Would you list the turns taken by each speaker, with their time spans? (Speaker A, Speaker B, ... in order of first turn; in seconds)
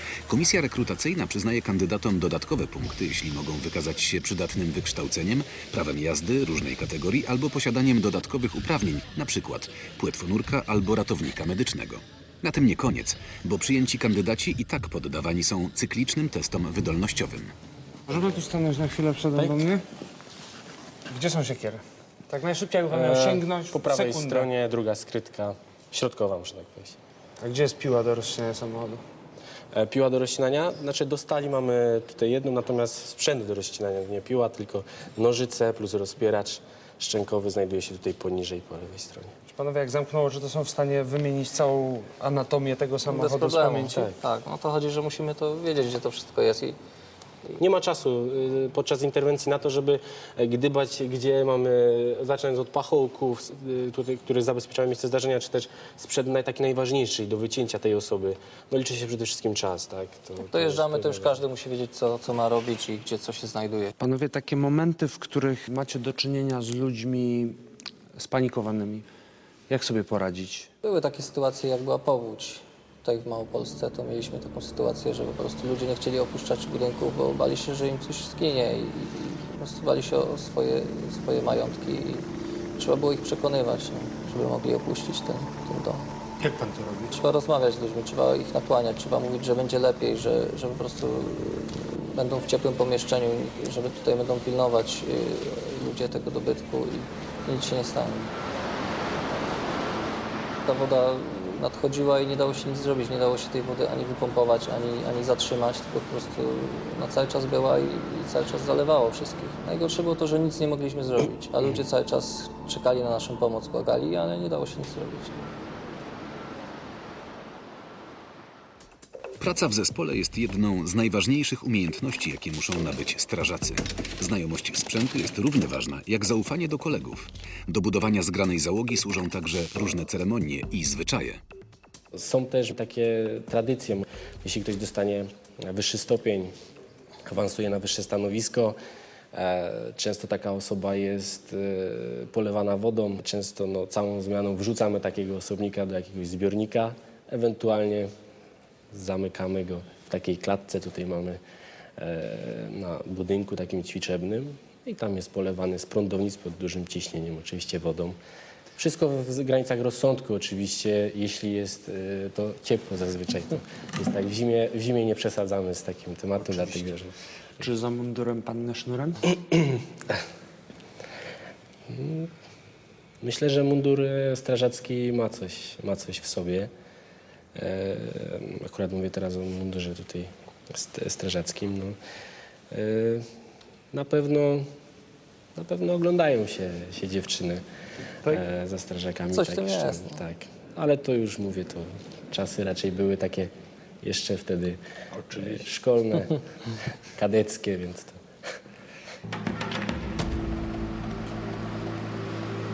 Speaker A: 0.3-17.5, 119.4-131.4
Speaker B: 18.1-19.8, 21.1-24.5, 27.4-29.0, 39.5-43.9, 64.0-67.6, 68.2-69.0, 69.7-70.7, 86.4-87.1, 167.6-169.3
Speaker C: 22.9-27.0, 29.7-39.3, 43.7-44.1, 47.6-61.4, 132.1-136.5, 137.3-138.8, 139.3-148.1, 148.9-151.4, 152.0-158.2, 158.8-167.1, 169.5-169.8, 171.9-172.3, 173.2-176.7, 177.6-182.0, 182.7-183.3, 183.9-184.7, 185.6-187.6, 188.2-193.5, 194.0-194.8, 195.3-196.4, 197.2-198.2
Speaker D: 43.1-46.8, 60.4-63.9, 70.8-82.3, 82.8-86.1, 87.1-98.3, 100.6-115.5, 189.3-190.2